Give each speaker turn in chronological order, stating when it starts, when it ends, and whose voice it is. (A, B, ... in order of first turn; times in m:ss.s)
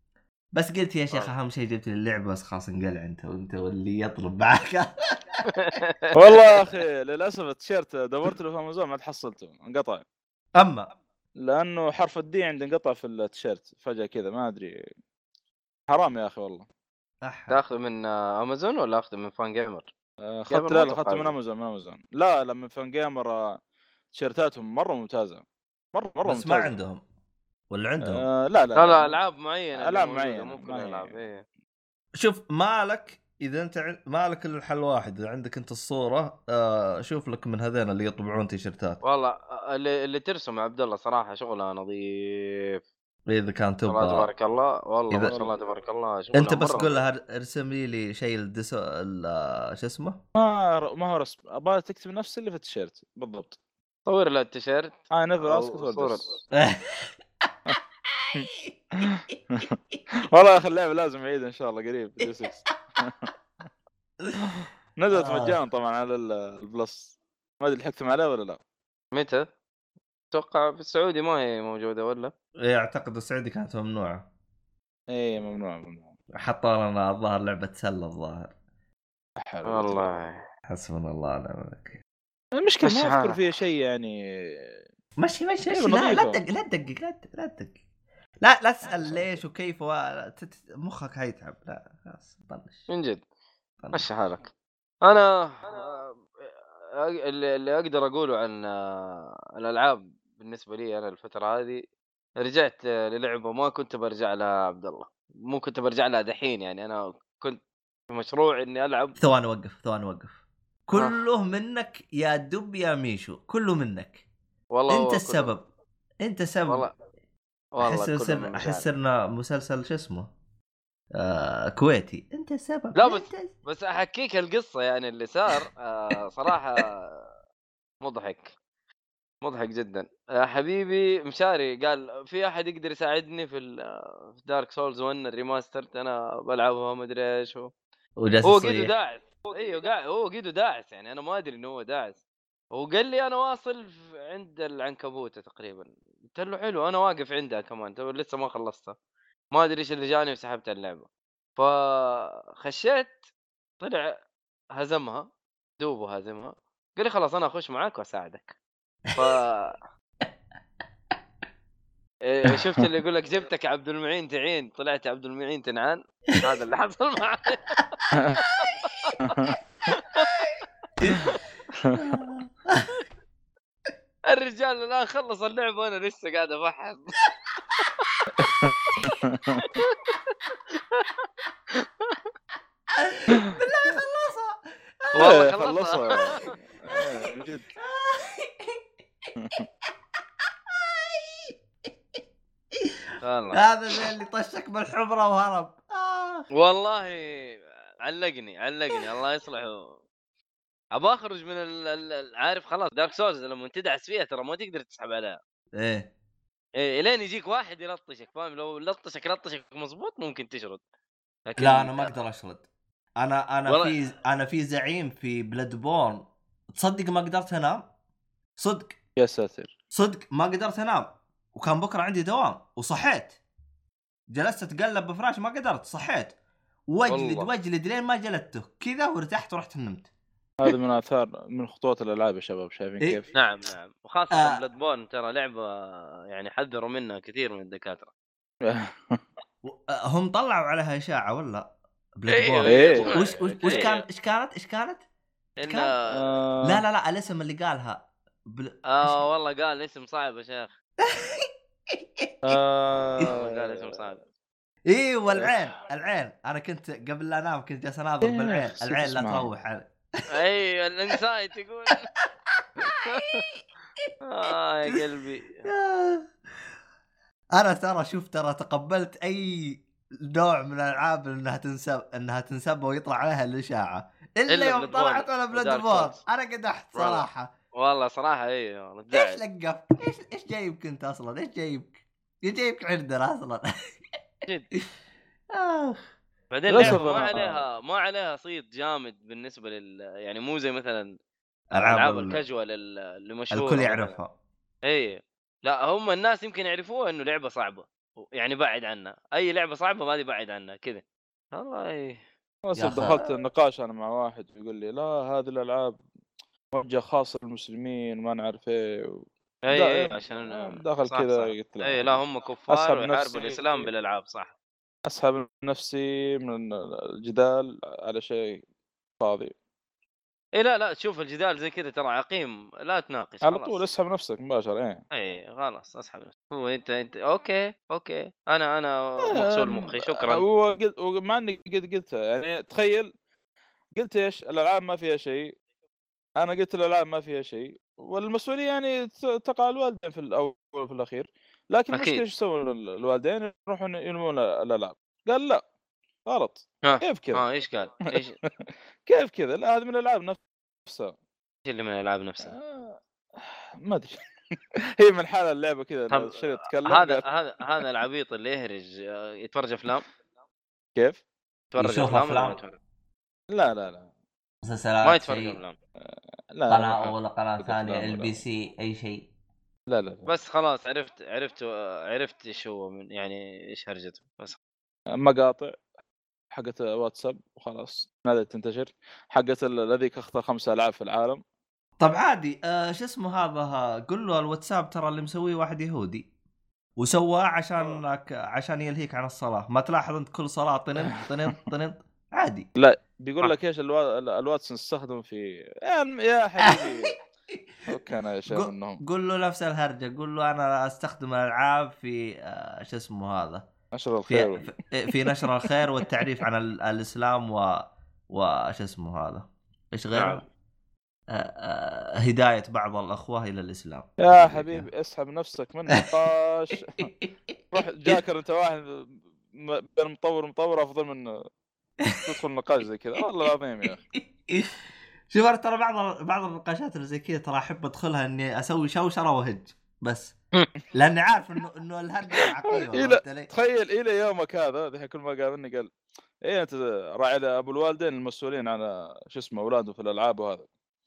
0:00.5-0:05.4 A
0:05.5-0:06.1 B
0:06.1-0:10.0 C
0:10.6-0:10.9 A
0:11.4-0:14.8 C
0:15.9-0:16.7 C
0:17.2-0:17.6 A
0:17.5-0:19.9 B
0:20.2-0:23.6 C
0:20.5-0:21.4 B
0:24.1-0:26.7 C
0:26.2-0:27.0 A
0:27.7-0:28.2 A
0:28.0-0:29.2 C
0:28.8-0:31.4 B
0:29.8-0:31.2 C
0:32.1-0:39.0 A
0:39.0-0:42.8 B
0:43.3-0:44.3 A
0:43.9-0:46.9 B
0:45.3-0:45.5 C
0:46.3-0:50.2 A
0:50.4-0:53.6 C
0:54.1-0:56.4 B
0:55.1-0:56.3 C
0:56.6-0:57.5 A
0:58.1-0:58.8 A
0:59.1-0:59.8 C
1:00.3-1:03.3 C
1:04.4-1:08.6 C
1:05.1-1:05.6 A
1:09.1-1:09.4 B
1:10.3-1:12.3 B
1:12.6-1:14.2 A
1:15.1-1:16.1 C
1:16.3-1:18.5 A
1:19.4-1:20.1 C
1:19.6-1:20.4 B
1:20.7-1:22.0 A
1:22.6-1:24.2 C
1:22.9-1:23.4 B
1:25.2-1:27.8 A
1:25.7-1:26.4 C
1:28.4-1:32.9 A
1:29.0-1:29.2 C
1:32.9-1:33.2 B
1:33.8-1:34.3 A
1:33.9-1:34.5 B
1:35.0-1:36.1 B
1:37.0-1:41.8 B
1:42.4-1:47.6 B
1:48.1-1:49.2 B
1:49.2-1:50.4 A
1:50.9-1:54.2 A
1:50.9-1:51.2 B
1:54.7-1:55.5 B
1:54.9-1:55.6 A
1:56.2-1:56.9 A
1:57.7-1:58.9 B
1:57.8-2:00.3 A
2:01.2-2:03.5 A
2:03.0-2:07.3 B
2:08.0-2:08.5 B
2:09.4-2:17.7 B
2:18.2-2:18.9 A
2:18.4-2:22.2 B
2:22.7-2:29.0 B
2:29.5-2:33.2 B
2:33.8-2:34.2 B
2:34.8-2:35.3 B
2:35.8-2:38.6 B
2:39.1-2:39.4 A
2:39.2-2:39.8 B
2:42.3-2:48.1 B
2:48.1-2:48.4 C
2:48.8-2:49.2 B
2:49.2-2:49.6 C
2:50.0-2:50.4 B
2:52.1-2:53.0 A
2:54.3-2:57.2 B
2:57.8-2:58.1 B
2:58.4-2:59.8 C
2:59.8-3:00.2 B
3:00.7-3:02.2 B
3:03.0-3:05.4 A
3:03.3-3:03.5 C
3:05.2-3:06.5 B
3:05.2-3:07.7 C
3:07.8-3:08.8 A
3:09.4-3:09.7 C
3:10.7-3:11.6 A
3:13.2-3:13.6 B
3:13.5-3:16.5 A
3:16.5-3:20.0 B
3:21.0-3:25.4 B
3:25.8-3:26.1 A
3:26.8-3:30.8 B
3:31.5-3:32.1 B
3:31.6-3:32.7 A
3:33.2-3:37.8 A
3:33.7-3:34.0 B
3:38.6-3:39.0 A
3:39.2-3:39.7 C
3:39.9-3:43.4 A
3:44.3-3:46.4 A
3:46.9-3:50.1 A
3:47.1-3:47.5 B
3:50.6-3:53.3 C
3:53.3-3:58.1 B
3:54.3-3:54.6 A
3:58.6-3:59.2 C
3:59.6-4:05.0 A
4:02.3-4:04.0 B
4:02.6-4:03.8 C
4:05.6-4:06.2 B
4:05.6-4:05.9 A
4:06.1-4:06.8 C
4:06.6-4:09.2 A
4:08.9-4:10.7 B
4:11.0-4:12.3 A
4:12.4-4:14.0 C
4:13.2-4:14.2 B
4:14.9-4:20.4 A
4:18.2-4:19.5 C
4:20.3-4:22.1 B
4:22.6-4:23.4 A
4:22.9-4:23.5 B
4:24.2-4:25.6 B
4:24.5-4:25.0 A
4:25.6-4:26.3 A
4:27.5-4:37.5 A
4:34.5-4:36.2 B
4:37.0-4:39.4 B
4:39.1-4:44.0 A
4:45.5-4:46.1 A
4:46.5-4:51.2 B
4:46.7-4:47.6 C
4:46.8-4:47.0 A
4:51.7-4:52.4 A
4:51.7-4:54.2 B
4:53.5-4:54.3 A
4:54.8-5:01.0 B
5:01.5-5:02.2 B
5:02.6-5:06.0 C
5:02.8-5:03.3 A
5:06.7-5:13.9 C
5:09.6-5:14.5 B
5:15.1-5:18.6 C
5:19.2-5:19.5 C
5:20.6-5:23.8 B
5:23.4-5:25.0 C
5:25.1-5:30.4 B
5:29.2-5:33.1 C
5:34.0-5:35.6 C
5:36.4-5:45.6 C
5:41.9-5:42.2 B
5:46.3-5:47.4 C
5:46.8-5:48.4 B
5:49.0-5:51.1 C
5:51.7-5:52.6 B
5:52.4-5:54.2 C
5:55.0-5:57.2 C
5:56.1-6:00.1 B
6:01.0-6:01.2 C
6:01.7-6:02.7 B
6:01.8-6:02.6 A
6:03.5-6:04.1 C
6:04.6-6:05.6 A
6:05.0-6:05.8 B
6:06.5-6:08.4 C
6:06.7-6:09.3 A
6:09.9-6:10.3 C
6:10.3-6:14.6 B
6:15.2-6:15.8 C
6:16.5-6:21.4 C
6:22.0-6:26.3 A
6:27.0-6:32.7 A
6:32.8-6:37.2 C
6:36.6-6:37.7 A
6:37.9-6:39.0 C
6:38.5-6:43.7 A
6:43.9-6:44.7 C
6:44.3-6:50.4 A
6:50.2-6:50.4 B
6:51.3-6:54.9 A
6:54.2-6:57.1 C
6:57.2-6:57.6 A
6:57.7-7:01.4 C
7:02.2-7:04.0 C
7:04.1-7:10.4 A
7:10.9-7:13.5 A
7:12.7-7:15.9 C
7:16.4-7:20.7 C